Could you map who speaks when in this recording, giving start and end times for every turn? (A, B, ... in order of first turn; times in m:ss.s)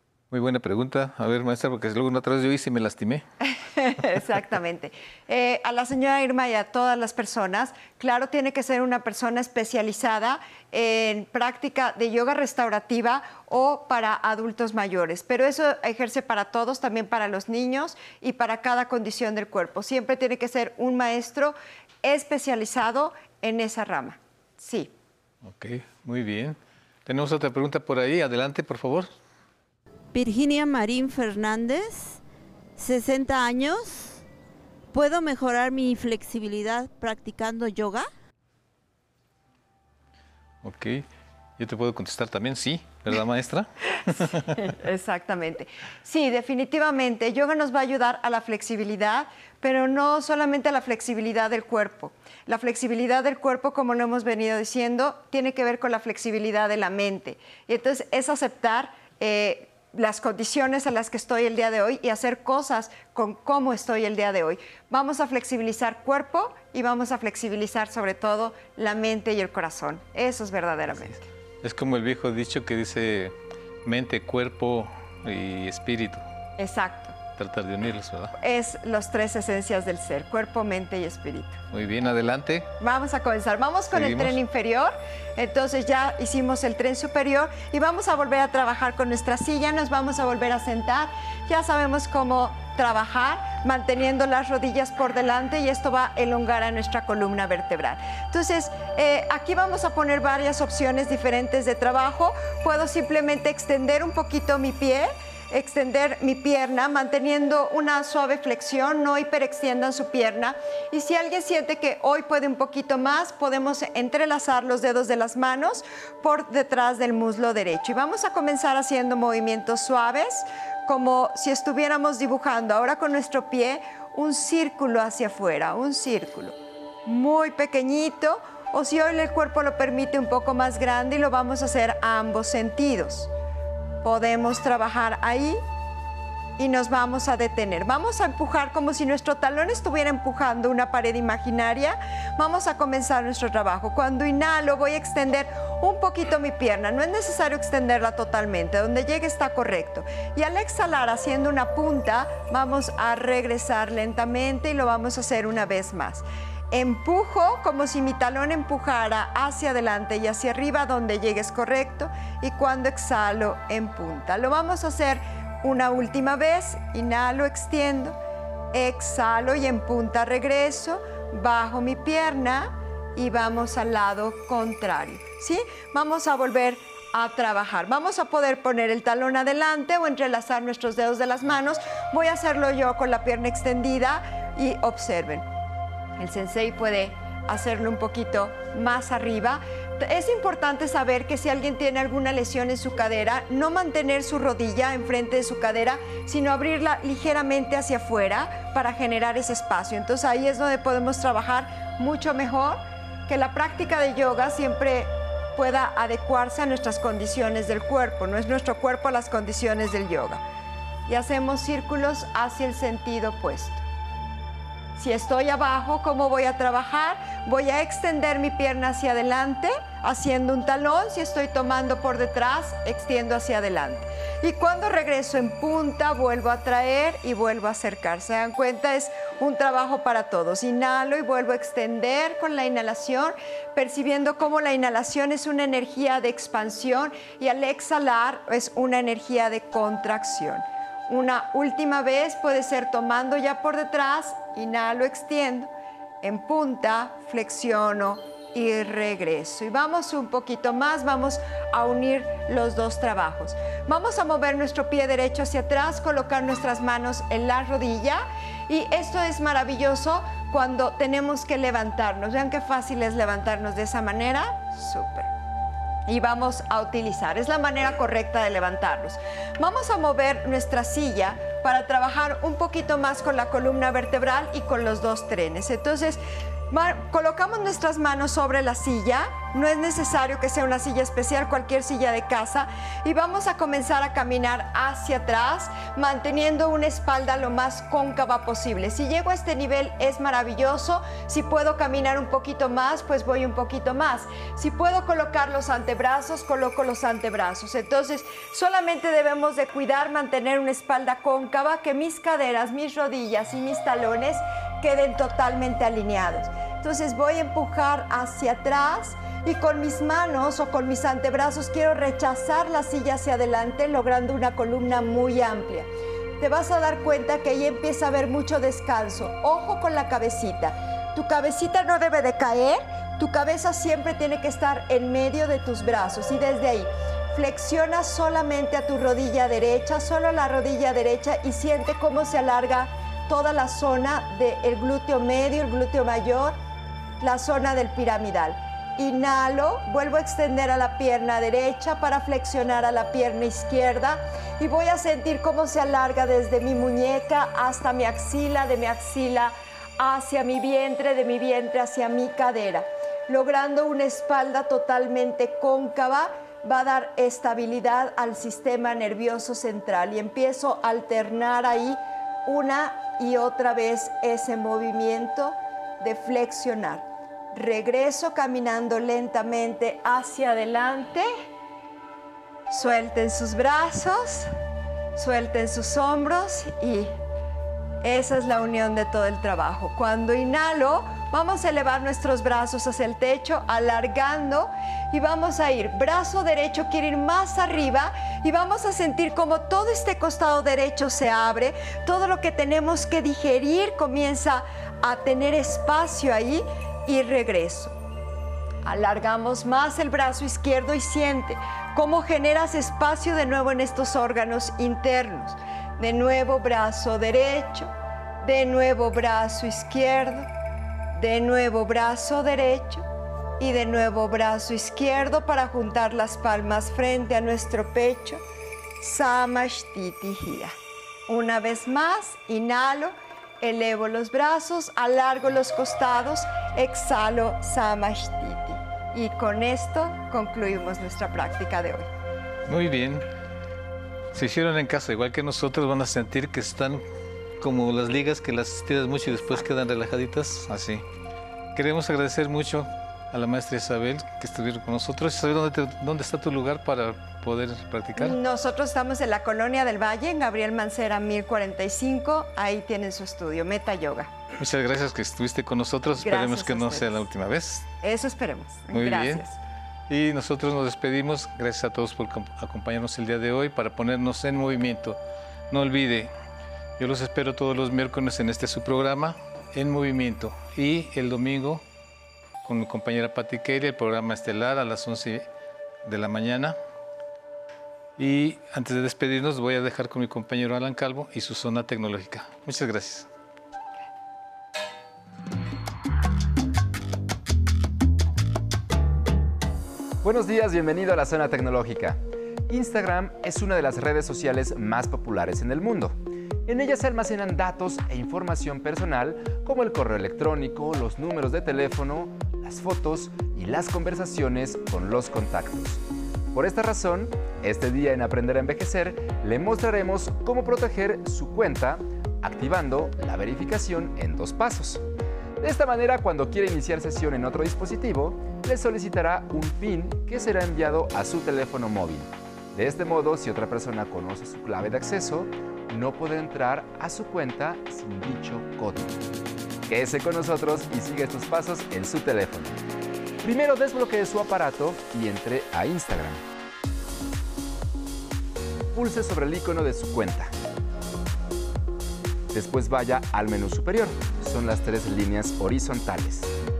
0:00.3-0:03.2 A
0:03.5-0:24.9 B
0:25.4-0:29.1 A
0:30.1-0:32.2 C
0:32.8-0:34.2 C
0:34.9-0:38.1 C
0:40.6-0:44.6 A
0:44.6-1:11.2 B
1:11.6-1:16.2 A
1:16.6-1:17.2 B
1:17.4-1:18.3 A
1:18.4-1:21.6 B
1:21.7-1:22.7 A
1:22.8-2:13.3 B
1:23.9-1:24.4 A
2:14.0-2:15.6 B
2:16.6-2:48.2 B
2:48.7-3:05.4 B
3:06.2-3:30.4 B
3:31.1-3:33.8 B
3:35.0-4:05.7 B
4:06.2-4:25.3 B
4:26.1-5:15.9 B
5:16.4-5:36.6 B
5:37.2-6:11.3 B
6:12.7-6:14.5 B
6:15.1-6:17.1 B
6:18.0-6:38.0 B
6:38.8-6:47.9 B
6:48.4-6:50.5 B
6:51.1-6:53.0 B
6:53.6-6:58.4 B
6:59.0-7:00.7 B
7:01.3-7:12.1 B
7:12.7-7:13.3 A
7:14.3-7:17.0 A
7:17.6-7:21.0 A
7:21.7-7:28.4 A
7:28.2-7:34.3 B
7:34.6-7:37.9 A
7:36.2-7:37.2 B
7:38.0-7:39.6 B
7:38.9-7:39.4 A
7:40.1-7:45.2 A
7:45.7-7:46.3 A
7:47.0-7:51.8 A
7:52.6-7:55.5 A
7:56.0-7:56.8 A
7:58.2-8:03.3 A
8:10.2-8:26.0 D
8:26.5-8:35.0 D
8:35.6-8:49.2 D
8:49.9-8:52.8 D
8:53.4-8:56.4 D
8:58.9-9:00.5 D
9:02.5-9:06.5 D